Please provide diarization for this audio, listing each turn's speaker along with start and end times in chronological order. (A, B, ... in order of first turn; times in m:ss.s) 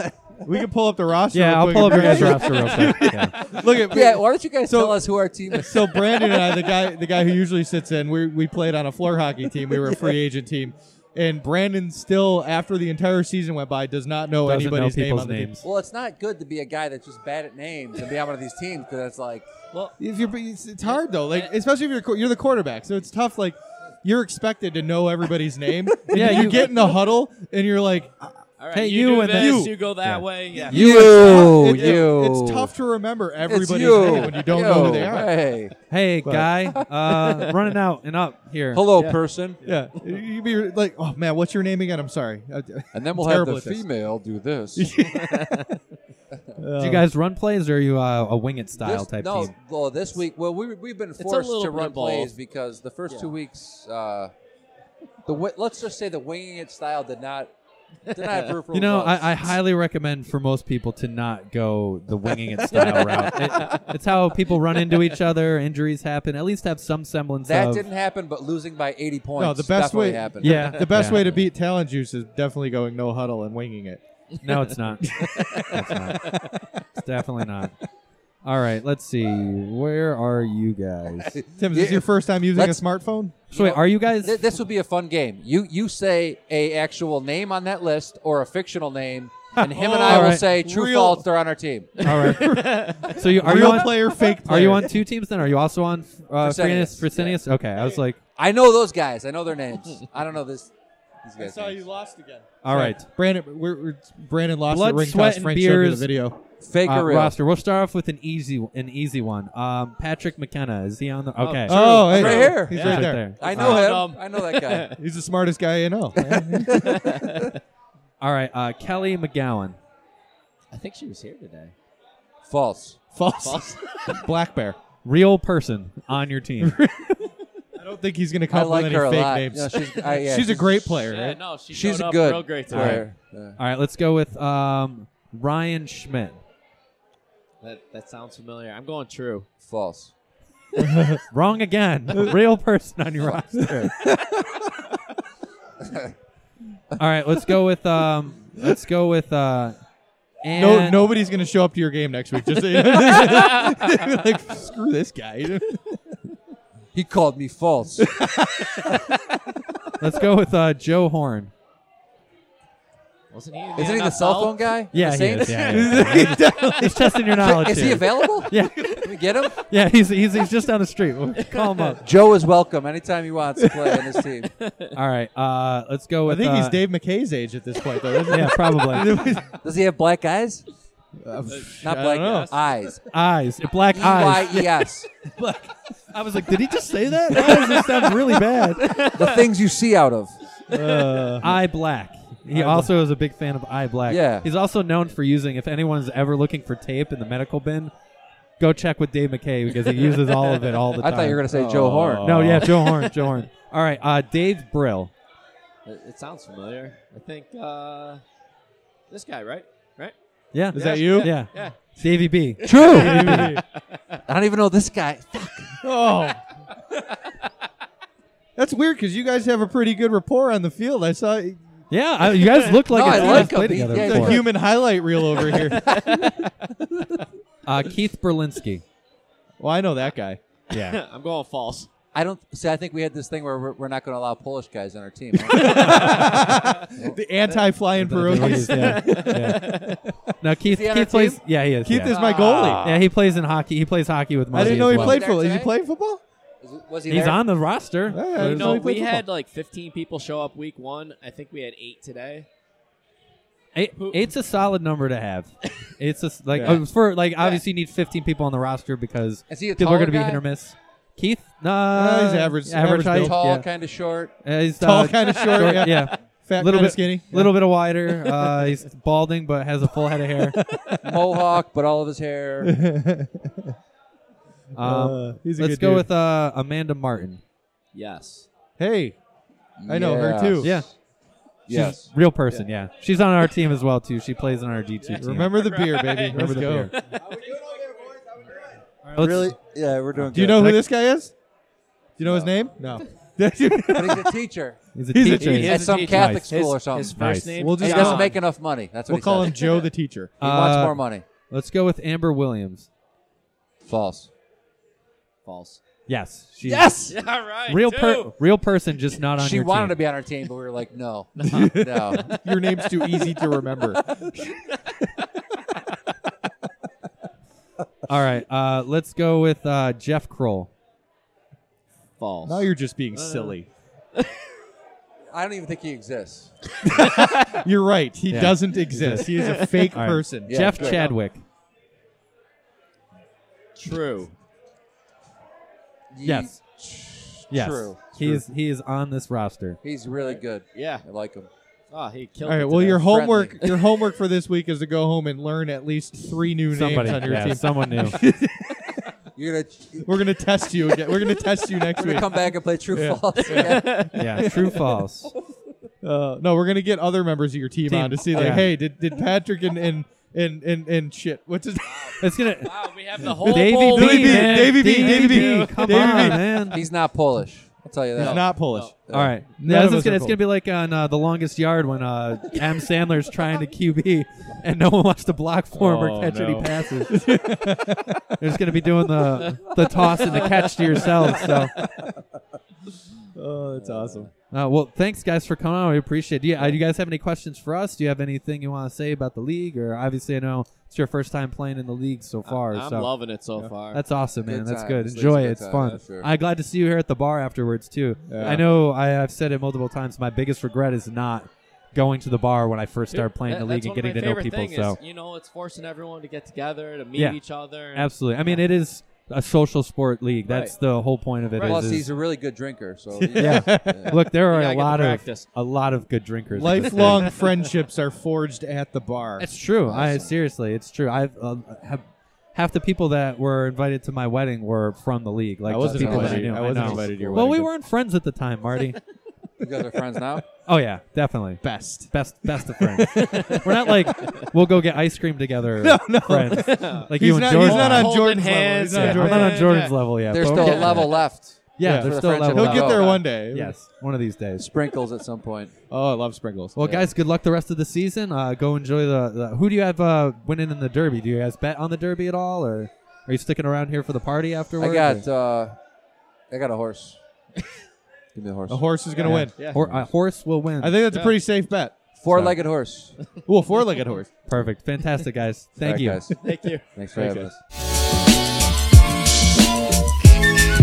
0:00.4-0:15.5 A
0:01.3-0:03.4 B
0:02.0-0:02.3 C
0:03.8-0:06.4 C
0:14.4-0:15.6 B
0:15.6-0:19.5 C
0:20.0-0:28.4 A
0:20.8-0:21.5 D
0:26.1-0:26.9 B
0:28.6-0:30.8 D
0:28.7-0:31.6 B
0:29.3-0:29.8 A
0:30.6-0:35.5 A
0:30.7-0:32.7 C
0:33.4-0:35.7 C
0:35.9-0:38.8 B
0:36.2-0:36.5 A
0:38.7-0:39.6 C
0:38.9-0:39.8 D
0:39.6-0:43.8 A
0:42.9-0:44.9 C
0:44.8-0:45.8 A
0:45.2-0:45.7 D
0:46.6-0:47.0 A
0:46.8-0:49.5 B
0:48.8-0:54.3 C
0:51.2-0:52.3 D
0:53.1-0:53.3 D
0:55.2-0:57.5 C
0:58.1-0:58.6 D
0:58.1-0:59.5 C
0:58.7-1:07.8 B
1:02.5-1:04.0 D
1:07.4-1:11.3 C
1:09.4-1:14.0 A
1:10.4-1:11.3 B
1:14.4-1:16.4 B
1:15.0-1:16.7 D
1:15.4-1:15.9 A
1:17.0-1:17.7 B
1:18.4-1:21.4 B
1:21.3-1:22.8 C
1:21.6-1:23.4 A
1:23.5-1:24.4 B
1:23.5-1:32.0 C
1:29.6-1:30.4 B
1:29.6-1:31.2 A
1:32.0-1:34.4 D
1:32.0-1:38.2 B
1:32.0-1:35.0 A
1:36.4-1:37.4 C
1:38.4-1:40.7 C
1:41.2-1:41.8 C
1:41.4-1:46.4 A
1:42.6-1:43.1 B
1:44.7-1:46.1 B
1:46.6-1:47.3 C
1:46.8-1:53.8 B
1:51.4-1:55.0 D
1:51.7-1:53.8 A
1:51.7-1:54.9 C
1:55.0-1:57.2 A
1:56.7-1:57.6 D
1:58.2-1:59.8 B
2:00.7-2:01.7 D
2:02.4-2:03.0 C
2:03.1-2:04.8 A
2:03.4-2:04.0 D
2:05.0-2:06.8 B
2:06.6-2:11.4 A
2:08.5-2:11.0 C
2:11.0-2:13.1 D
2:11.7-2:13.6 C
2:12.7-2:16.4 B
2:17.6-2:19.5 D
2:19.6-2:20.1 C
2:20.8-2:21.2 A
2:21.3-2:24.0 B
2:23.7-2:24.4 A
2:25.8-2:26.1 C
2:27.0-2:29.8 B
2:30.4-2:31.1 B
2:30.5-2:36.0 A
2:33.1-2:33.4 D
2:36.9-2:38.1 C
2:38.0-2:39.1 A
2:40.0-2:41.5 B
2:43.3-2:44.8 D
2:43.8-2:46.3 C
2:44.9-2:52.0 B
2:45.6-2:47.2 A
2:47.4-2:49.6 C
2:51.4-2:52.0 D
2:52.0-2:54.5 C
2:54.6-2:54.9 D
2:54.9-2:56.8 B
2:56.3-2:59.6 A
2:58.3-2:59.2 B
2:59.6-3:00.6 C
3:01.2-3:02.5 A
3:01.5-3:02.5 D
3:01.8-3:03.0 C
3:03.1-3:04.9 B
3:03.9-3:05.1 C
3:05.4-3:05.7 A
3:06.1-3:09.0 B
3:07.3-3:07.6 A
3:07.6-3:08.1 D
3:08.8-3:09.5 D
3:09.1-3:10.4 C
3:10.7-3:11.5 A
3:11.1-3:11.4 D
3:11.4-3:17.9 B
3:12.5-3:12.9 A
3:14.1-3:14.5 C
3:18.6-3:21.6 B
3:20.1-3:20.8 D
3:21.0-3:22.4 C
3:21.5-3:22.9 A
3:22.2-3:25.1 B
3:25.8-3:28.2 D
3:29.1-3:30.1 D
3:30.5-3:33.6 B
3:30.7-3:31.4 A
3:30.7-3:31.8 D
3:32.6-3:34.2 D
3:32.6-3:33.5 C
3:32.9-3:33.6 A
3:34.3-3:35.8 C
3:35.8-3:36.4 A
3:38.6-3:41.6 A
3:41.9-3:44.4 B
3:42.9-3:44.5 C
3:43.0-3:46.0 A
3:45.5-3:46.4 D
3:47.6-3:48.8 B
3:49.6-3:50.4 A
3:50.7-3:51.0 B
3:50.7-3:51.9 D
3:52.1-3:56.3 C
3:55.4-4:00.0 A
3:57.9-3:59.8 B
3:58.3-4:00.0 D
4:00.4-4:02.2 B
4:00.6-4:01.4 C
4:01.8-4:02.9 A
4:02.1-4:03.0 C
4:02.1-4:02.8 D
4:02.8-4:05.2 B
4:04.5-4:06.2 A
4:04.5-4:05.8 C
4:06.6-4:07.5 C
4:07.1-4:09.0 B
4:08.1-4:09.2 A
4:08.3-4:12.5 D
4:13.7-4:23.6 B
4:14.0-4:14.3 D
4:16.5-4:16.8 A
4:19.5-4:20.4 C
4:21.9-4:23.4 A
4:23.1-4:24.3 C
4:24.4-4:30.6 B
4:24.8-4:27.5 A
4:31.0-4:32.7 C
4:32.6-4:33.7 A
4:34.7-4:37.4 B
4:34.8-4:36.0 A
4:37.9-4:38.5 D
4:38.8-4:39.2 A
4:39.8-4:40.9 C
4:39.8-4:40.7 A
4:40.6-4:40.9 B
4:41.7-4:42.1 C
4:41.7-4:45.7 B
4:45.0-4:47.5 D
4:45.2-4:46.9 A
4:46.3-4:46.9 B
4:49.0-4:49.6 B
4:49.2-4:50.7 C
4:50.1-4:50.8 B
4:50.3-4:51.3 A
4:52.2-4:54.4 A
4:53.9-4:54.8 C
4:54.9-4:57.6 B
4:55.1-4:55.8 A
4:55.3-4:58.4 D
4:55.6-4:57.2 C
4:57.6-4:58.4 A
4:57.7-4:59.8 C
4:59.1-5:00.4 A
5:00.4-5:01.2 C
5:00.4-5:02.9 B
5:03.8-5:04.3 C
5:05.4-5:05.8 D
5:06.1-5:10.0 B
5:06.6-5:08.3 D
5:09.3-5:12.4 C
5:11.4-5:11.7 D
5:11.4-5:14.6 A
5:13.0-5:13.5 D
5:18.1-5:20.7 B
5:22.2-5:23.6 D
5:22.4-5:23.7 A
5:25.3-5:26.5 C
5:26.9-5:30.9 A
5:27.2-5:27.6 D
5:28.3-5:29.4 B
5:29.1-5:29.9 D
5:29.9-5:31.4 B
5:30.5-5:31.0 C
5:30.7-5:31.2 D
5:33.8-5:34.3 D
5:36.1-5:38.4 C
5:36.2-5:36.5 B
5:37.5-5:39.8 B
5:39.8-5:41.5 C
5:40.2-5:41.0 D
5:41.9-5:43.7 D
5:42.4-5:48.8 A
5:43.0-5:43.6 C
5:46.7-5:48.2 B
5:49.3-5:50.2 C
5:50.0-5:55.0 A
5:51.9-5:54.1 C
5:53.4-5:54.2 D
5:54.1-5:55.3 B
5:56.0-6:02.2 A
5:57.9-5:58.7 B
6:01.8-6:06.4 D
6:02.2-6:06.8 B
6:03.2-6:06.7 A
6:06.7-6:09.4 C
6:08.2-6:08.9 A
6:08.2-6:08.9 D
6:09.1-6:17.8 B
6:09.6-6:10.4 A
6:15.7-6:18.4 A
6:18.4-6:21.7 B
6:19.6-6:21.7 D
6:20.3-6:22.1 A
6:23.3-6:24.3 A
6:24.5-6:33.1 B
6:32.4-6:34.0 D
6:33.9-6:45.0 B
6:34.4-6:36.3 C
6:38.3-6:38.7 A
6:43.1-6:48.6 D
6:47.1-6:47.4 B
6:47.9-6:52.1 B
6:51.6-6:54.2 C
6:53.2-6:54.2 A
6:53.4-6:57.3 B
6:54.4-6:55.5 D
6:56.5-6:59.5 A
6:57.0-6:57.5 D
6:59.4-7:09.0 B
6:59.8-7:00.3 C
7:05.6-7:07.7 A
7:05.8-7:07.5 C
7:09.6-7:10.4 C
7:10.6-7:18.2 B
7:11.6-7:14.3 A
7:13.1-7:14.5 D
7:15.8-7:19.8 A
7:16.5-7:21.2 D
7:18.9-7:24.7 B
7:20.1-7:23.2 C
7:21.8-7:23.7 A
7:24.6-7:25.7 C
7:25.9-7:26.8 A
7:26.8-7:35.2 B
7:26.8-7:27.1 C
7:34.8-7:35.8 C
7:36.5-7:37.2 C
7:38.3-7:38.9 C
7:38.7-7:39.6 A
7:39.2-7:41.0 B
7:39.6-7:39.8 D
7:39.7-7:40.1 C
7:40.8-7:42.0 A
7:41.1-7:41.4 D
7:42.1-7:43.2 C
7:42.3-7:42.6 B
7:43.4-7:44.3 A
7:44.4-7:46.2 B
7:45.8-7:47.6 C
7:46.4-7:46.9 D
7:47.1-7:47.5 A